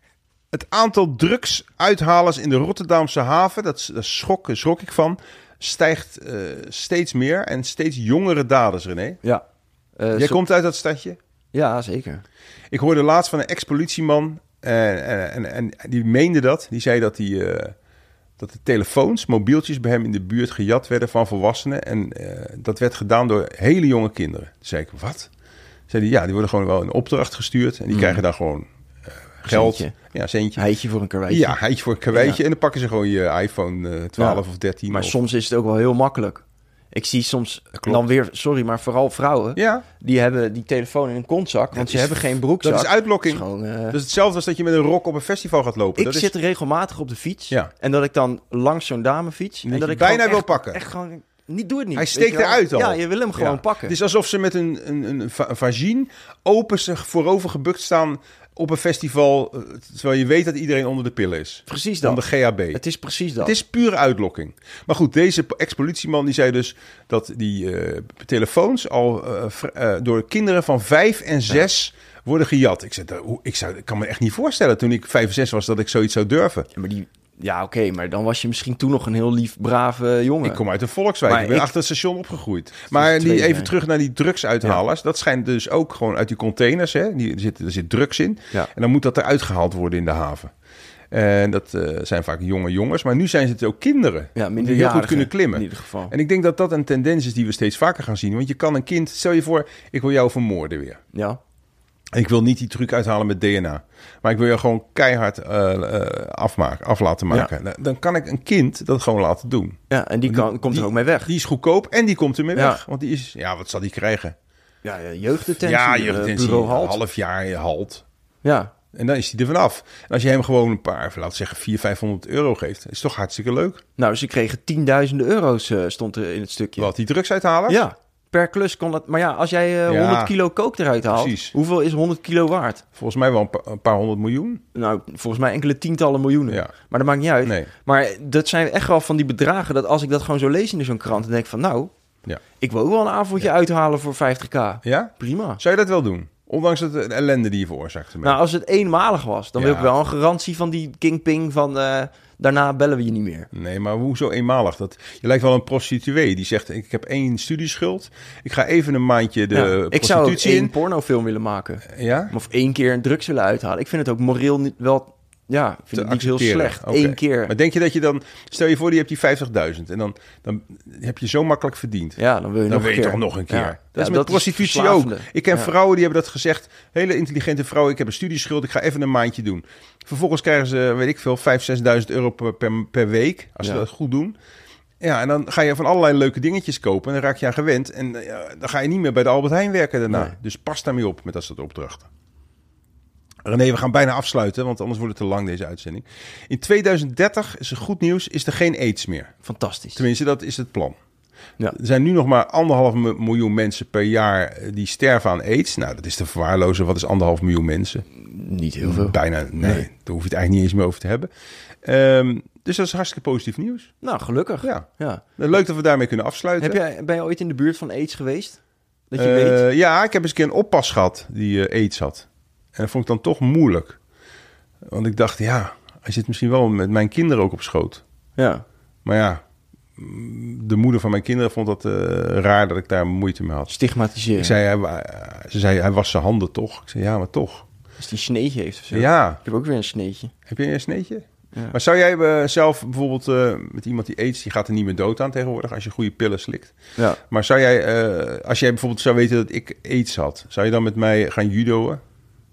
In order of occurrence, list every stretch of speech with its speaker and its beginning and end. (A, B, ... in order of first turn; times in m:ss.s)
0:00.5-0:09.2 A
0:10.0-0:10.4 B
0:10.1-0:11.2 A
0:11.5-0:12.2 B
0:12.7-0:17.8 A
0:18.4-0:25.3 A
0:25.9-0:28.7 A
0:27.9-0:28.2 B
0:29.4-0:30.6 A
0:29.5-0:30.0 B
0:30.6-0:31.6 B
0:31.3-0:35.2 A
0:32.1-0:32.4 B
0:34.2-0:44.0 B
0:37.8-0:38.1 A
0:39.6-0:39.8 A
0:41.7-0:46.3 A
0:46.0-0:54.0 B
0:49.6-0:50.8 A
0:52.0-1:02.8 A
1:01.7-1:03.6 B
1:03.4-1:16.7 A
1:16.7-1:20.6 B
1:20.4-1:30.5 A
1:21.3-1:21.8 B
1:22.9-1:23.7 B
1:31.1-1:41.0 A
1:34.4-1:36.1 B
1:41.1-1:41.4 B
1:42.1-1:54.4 A
1:49.9-1:51.3 B
1:52.6-1:52.8 B
1:54.8-1:57.0 B
1:55.5-1:58.0 A
1:58.4-1:58.7 B
1:58.9-2:03.8 A
2:04.0-2:06.9 B
2:06.8-2:07.8 A
2:07.7-2:12.8 B
2:09.9-2:10.3 A
2:11.1-2:11.5 A
2:13.0-2:14.6 A
2:14.7-2:21.9 B
2:22.6-2:25.6 B
2:24.8-2:28.4 A
2:28.2-2:33.5 B
2:29.6-2:29.9 A
2:33.5-2:40.7 A
2:39.5-2:47.5 B
2:41.9-2:42.3 A
2:46.0-3:04.4 A
2:52.2-2:55.7 B
3:05.0-3:12.1 A
3:13.4-3:19.3 A
3:19.4-3:20.0 B
3:20.0-3:21.0 A
3:21.7-3:28.0 A
3:28.1-3:29.9 B
3:28.8-3:31.3 A
3:31.8-3:33.9 A
3:34.0-3:35.2 B
3:34.6-3:36.8 A
3:36.6-3:38.6 B
3:39.1-3:39.6 B
3:39.2-3:44.0 A
3:44.8-3:48.0 A
3:48.4-3:48.6 B
3:49.0-3:49.4 A
3:50.0-3:53.7 A
3:53.7-3:54.5 B
3:54.4-3:57.7 A
3:58.0-4:00.3 B
3:58.9-3:59.4 A
4:00.5-4:06.8 A
4:07.3-4:12.0 A